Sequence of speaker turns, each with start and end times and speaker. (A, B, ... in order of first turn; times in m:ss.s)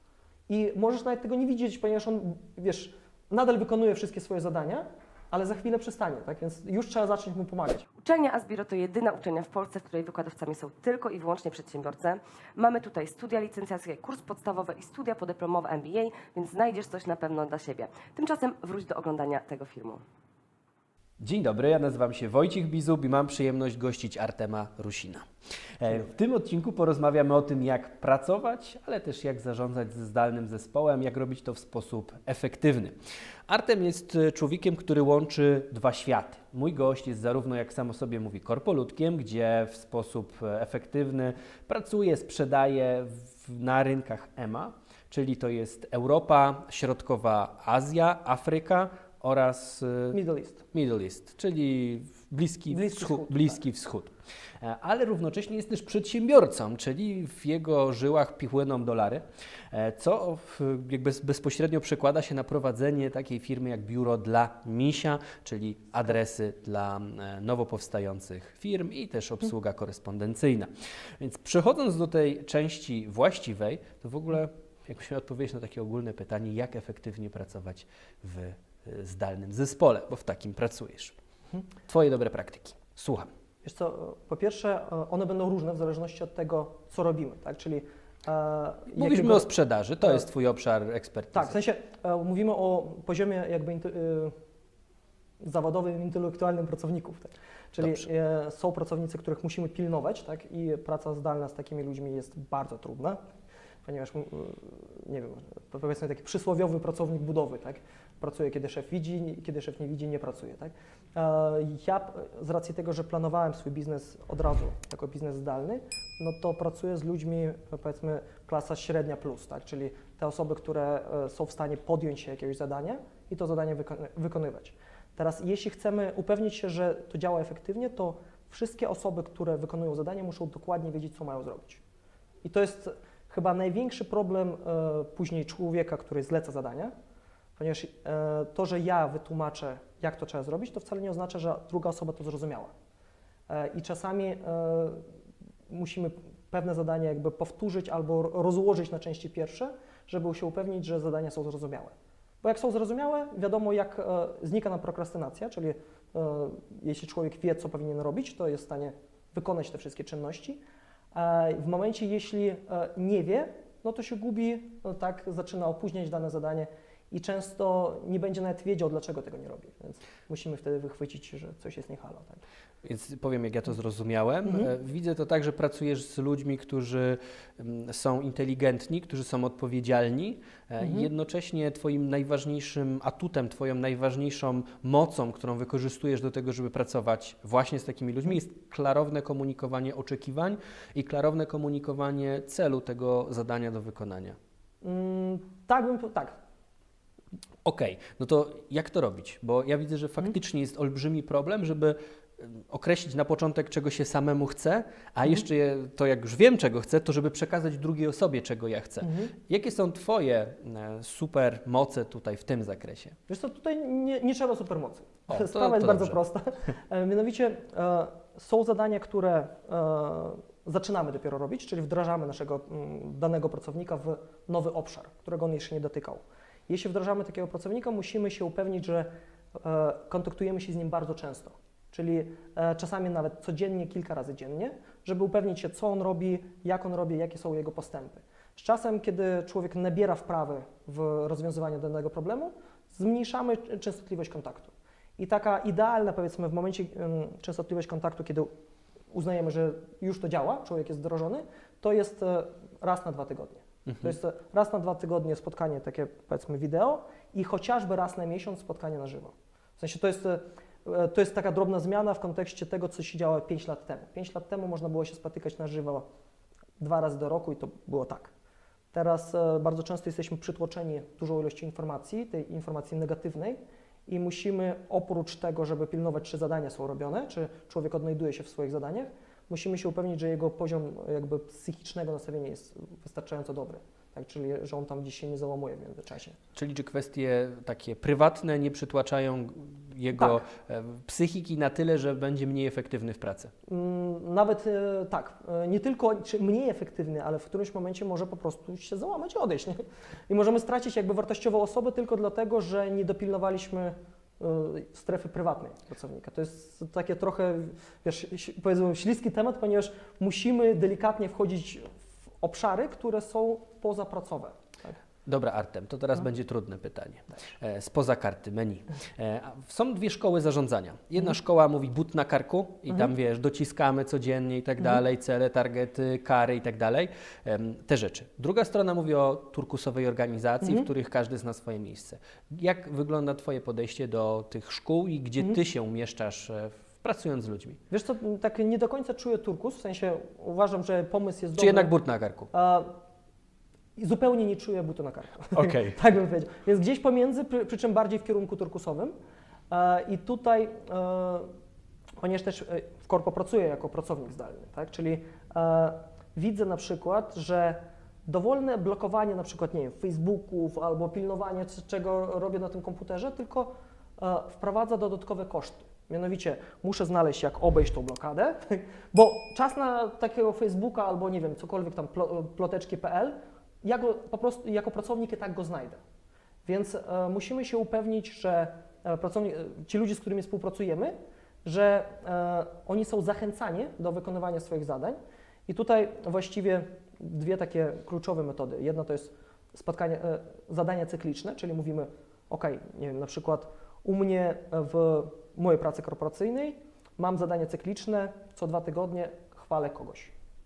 0:00.5-0:07.8 A
0:08.0-0:20.0 B
0:21.2-0:25.2 C
0:25.8-0:32.9 C
0:33.5-0:50.2 C
0:50.1-0:50.6 A
0:50.7-1:21.1 C
0:52.7-0:53.6 A
1:21.8-1:23.3 C
1:23.6-1:29.5 A
1:28.9-1:31.5 C
1:31.3-1:34.3 A
1:35.4-1:43.2 A
1:43.8-2:11.8 A
2:12.4-2:16.9 A
2:17.6-2:22.7 A
2:23.5-2:25.0 A
2:25.7-2:40.6 A
2:41.1-2:52.4 A
2:52.8-3:14.4 C
3:00.8-3:01.1 A
3:14.8-3:16.4 A
3:17.6-3:33.2 C
3:29.0-3:29.3 A
3:33.3-4:08.5 A
3:35.3-3:36.2 C
4:09.1-4:26.0 A
4:13.9-4:14.2 C
4:26.8-4:28.3 A
4:28.9-4:46.4 A
4:46.6-4:53.5 C
4:50.1-4:50.4 A
4:53.7-5:15.0 A
5:15.2-5:37.8 C
5:30.6-5:30.9 A
5:37.9-5:41.9 A
5:41.6-5:42.5 C
5:42.5-5:42.9 A
5:44.0-5:49.1 A
5:45.5-5:45.9 C
5:49.7-5:51.5 A
5:52.2-6:16.0 A
6:16.6-6:40.3 A